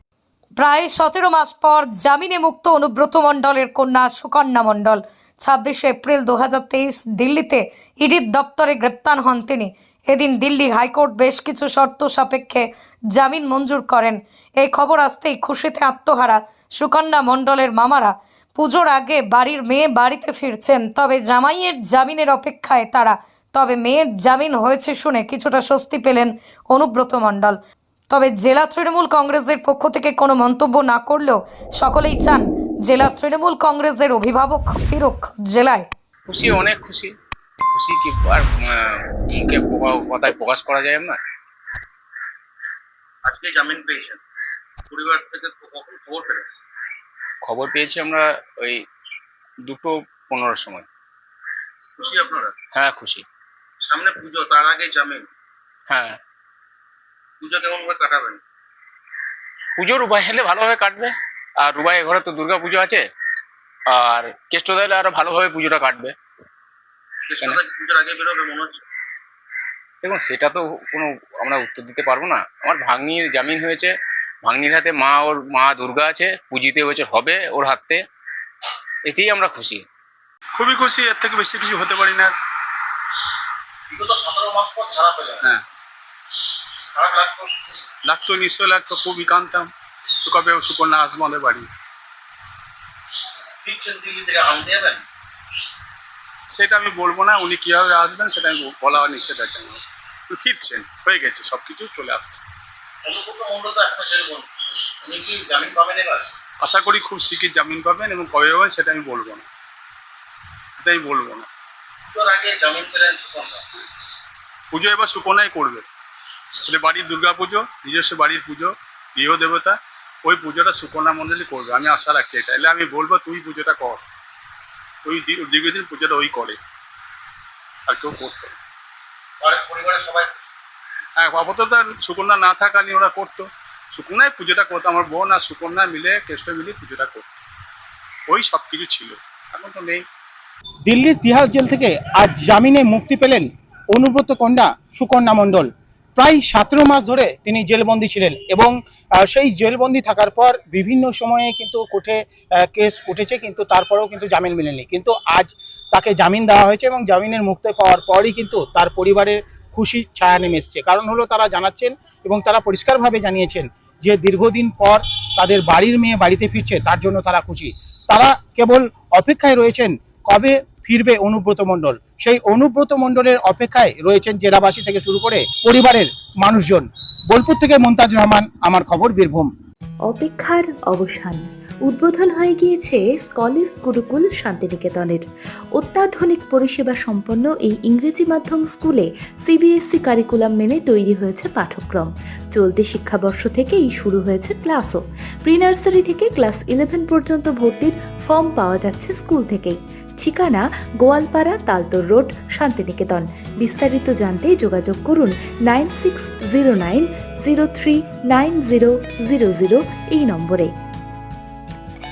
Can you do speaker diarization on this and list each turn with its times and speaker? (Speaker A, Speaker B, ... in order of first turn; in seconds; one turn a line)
Speaker A: 0.6-27.6
Speaker A: 28.1-35.9
Speaker B: 36.3-37.1
Speaker B: 37.7-41.2
Speaker C: 43.3-44.2
Speaker C: 44.9-46.5
Speaker B: 47.4-48.8
Speaker B: 49.6-50.9
Speaker C: 52.0-52.5
Speaker B: 52.7-53.2
Speaker C: 53.9-55.2
Speaker B: 55.9-56.2
Speaker C: 57.4-58.4
Speaker B: 59.8-63.0
Speaker B: 63.9-66.1
Speaker C: 67.3-68.8
Speaker B: 70.0-73.9
Speaker B: 74.4-78.0
Speaker B: 79.0-79.8
Speaker D: 80.6-82.3
Speaker C: 83.9-85.4
Speaker C: 87.0-87.5
Speaker D: 88.0-89.7
Speaker D: 90.2-91.7
Speaker C: 93.6-95.0
Speaker D: 96.5-102.4
Speaker C: 103.0-104.5
Speaker C: 105.0-106.3
Speaker D: 106.6-109.5
Speaker D: 110.8-111.5
Speaker C: 112.1-113.6
Speaker D: 114.7-115.8
Speaker D: 116.7-124.0
Speaker D: 125.0-126.6
Speaker D: 127.9-128.6
Speaker C: 129.4-130.5
Speaker D: 131.2-137.4
Speaker D: 138.3-140.0
Speaker E: 140.9-179.5
Speaker F: 180.1-185.2
Speaker F: 185.8-210.7